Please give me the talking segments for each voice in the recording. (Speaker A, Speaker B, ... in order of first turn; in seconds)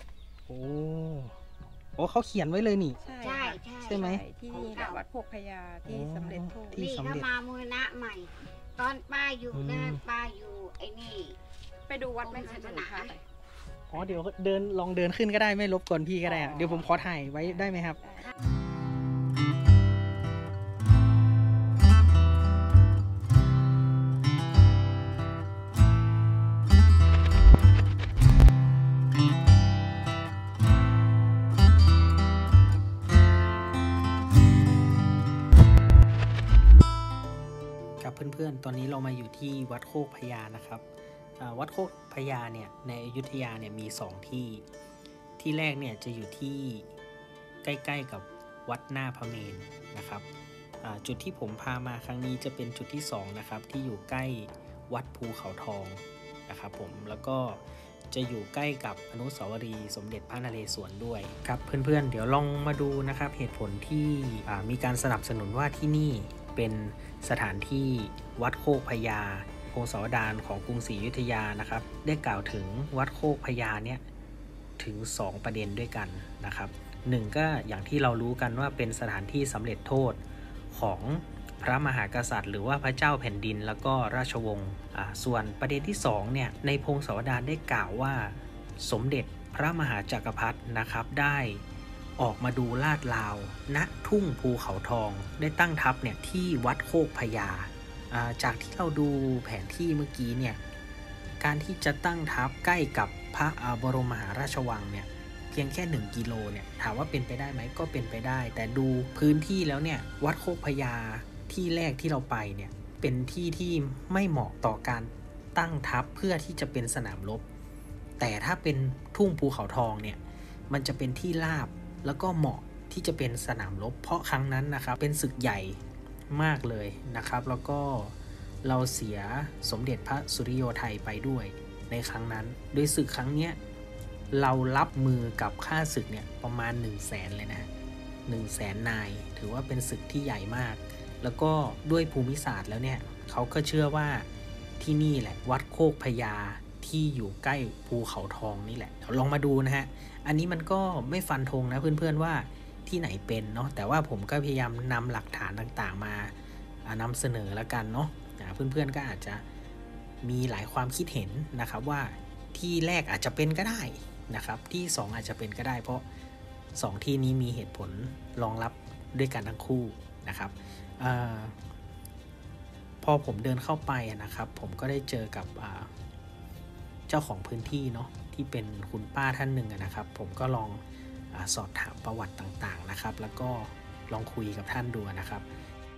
Speaker A: 0.5-1.4, 2.0-3.0, 3.8-4.2, 5.9-7.3, 9.5-10.0, 13.9-18.0, 38.0-40.8, 41.4-44.6, 45.4-46.9, 47.6-50.3, 50.8-74.0, 74.8-91.6, 92.2-100.6, 101.4-117.4, 118.2-125.8, 126.3-133.6, 134.3-137.7, 138.3-144.3, 144.8-156.3, 156.8-159.4, 160.2-166.1, 166.8-171.6, 173.0-175.9, 177.1-180.8, 181.3-185.5
Speaker B: 3.0-6.8, 11.9-13.2, 16.2-18.3
Speaker C: 3.2-5.0, 6.8-11.4, 12.2-13.1